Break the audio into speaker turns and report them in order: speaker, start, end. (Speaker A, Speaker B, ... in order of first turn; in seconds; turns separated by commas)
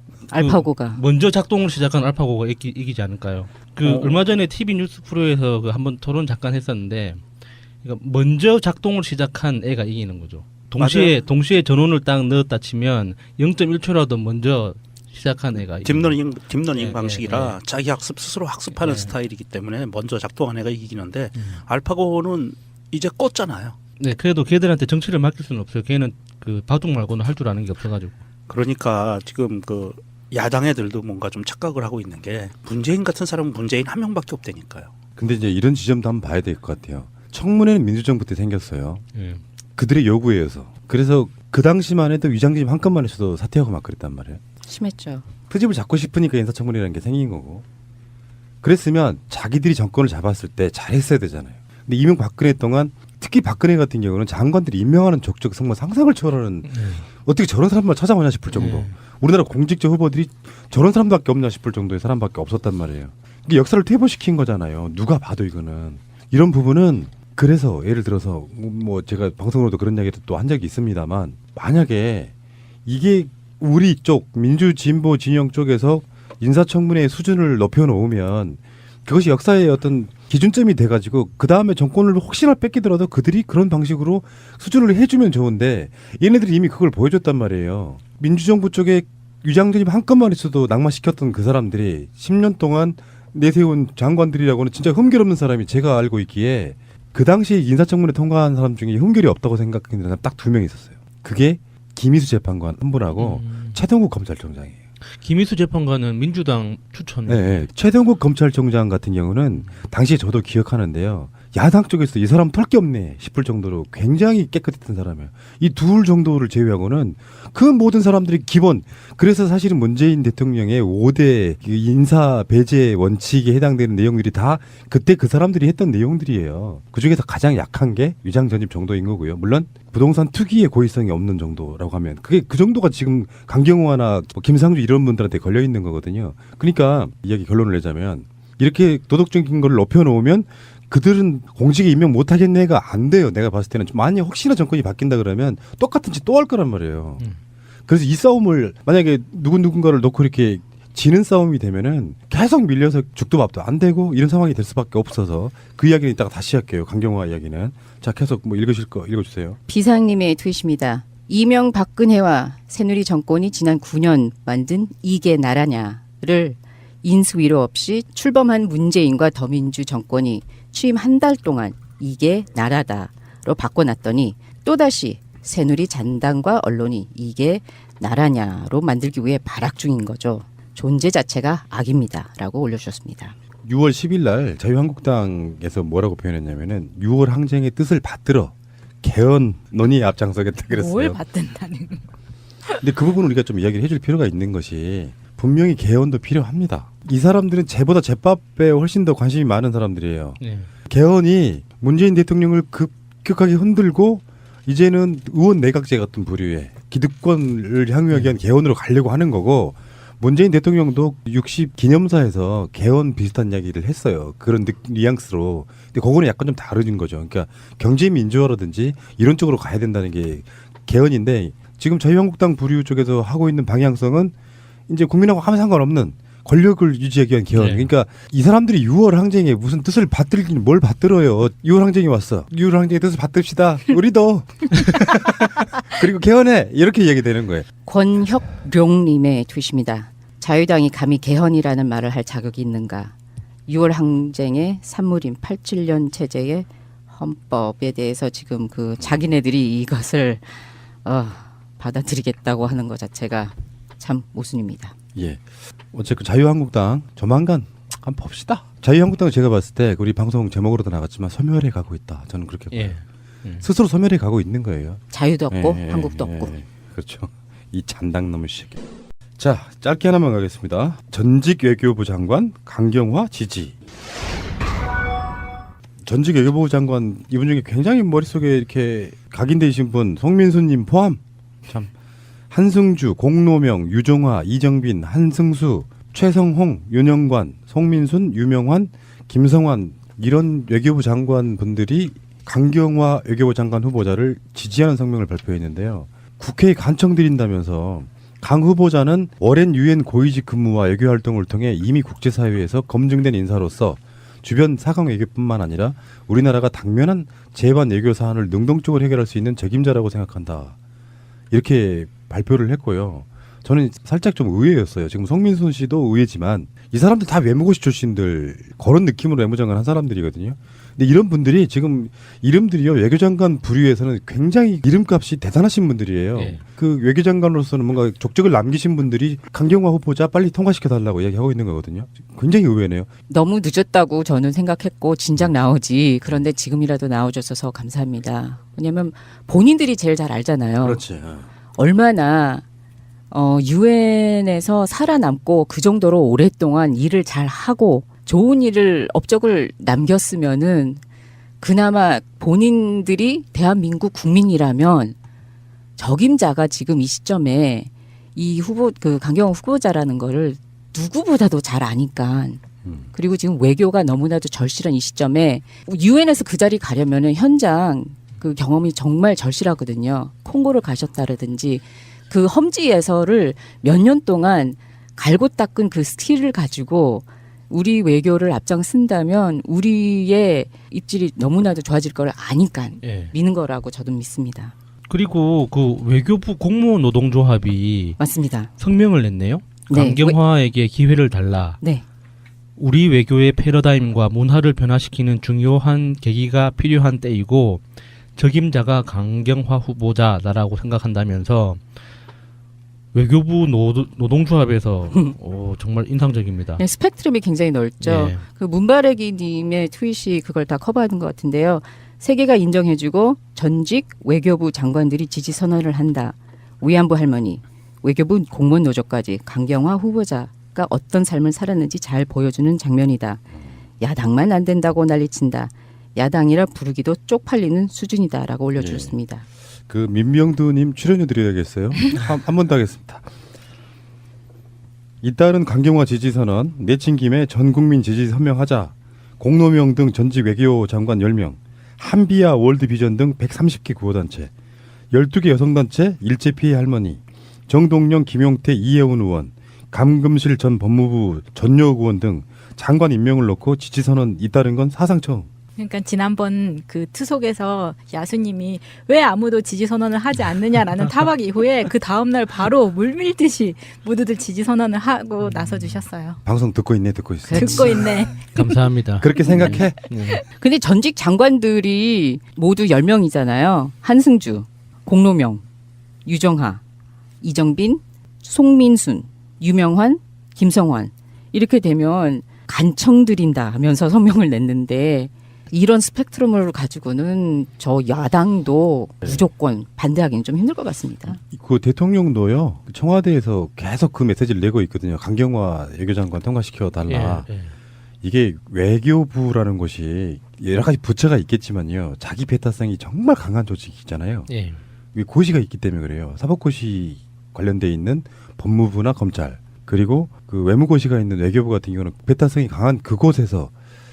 Speaker A: 0.3-1.0, Speaker B: 0.3-7.2, Speaker C: 3.9-4.1, Speaker B: 7.8-16.1, Speaker C: 10.8-11.1, Speaker C: 15.8-23.8, Speaker B: 16.7-17.6, Speaker B: 18.8-19.1, Speaker B: 21.4-21.6, Speaker B: 24.0-28.2, Speaker C: 28.5-34.9, Speaker D: 35.1-39.0, Speaker B: 39.1-39.4, Speaker D: 39.8-44.4, Speaker A: 44.7-45.3, Speaker D: 45.5-47.6, Speaker D: 48.6-72.3, Speaker B: 56.7-57.0, Speaker B: 58.5-58.9, Speaker D: 72.8-104.8, Speaker B: 103.2-103.8, Speaker B: 105.2-107.7, Speaker D: 107.2-147.2, Speaker D: 147.9-159.6, Speaker A: 159.7-183.3, Speaker D: 183.6-191.2, Speaker E: 190.7-192.0, Speaker D: 192.8-224.3, Speaker B: 200.4-200.7, Speaker D: 224.9-237.7, Speaker B: 227.5-227.9, Speaker A: 237.8-243.1, Speaker A: 243.7-254.9, Speaker D: 255.1-263.0, Speaker B: 262.7-263.6, Speaker D: 263.6-268.8, Speaker A: 265.1-266.5, Speaker D: 269.4-273.7, Speaker D: 276.1-281.9, Speaker D: 282.5-310.7, Speaker D: 311.5-333.1, Speaker B: 326.4-326.6, Speaker A: 333.3-341.0, Speaker D: 340.8-341.5, Speaker A: 341.7-342.6, Speaker A: 343.3-351.0, Speaker A: 351.6-355.1, Speaker A: 356.0-384.7, Speaker B: 383.0-383.3, Speaker B: 385.1-388.2, Speaker A: 388.2-388.7, Speaker B: 388.8-391.8, Speaker A: 389.9-390.4, Speaker B: 392.8-397.8, Speaker B: 398.4-401.8, Speaker B: 403.1-406.8, Speaker A: 406.8-423.4, Speaker B: 408.0-408.4, Speaker A: 424.0-429.4, Speaker D: 428.8-429.1, Speaker D: 429.9-433.3, Speaker D: 435.2-444.5, Speaker D: 445.1-455.5, Speaker E: 455.8-466.4, Speaker B: 465.6-466.0, Speaker D: 466.4-468.1, Speaker A: 467.5-468.3, Speaker E: 467.5-468.5, Speaker B: 468.5-470.4, Speaker D: 469.2-470.0, Speaker A: 470.6-475.6, Speaker A: 476.2-476.8, Speaker A: 477.4-491.4, Speaker D: 491.5-497.5, Speaker B: 497.1-497.7, Speaker D: 498.2-504.5, Speaker B: 504.5-504.8, Speaker D: 505.1-513.7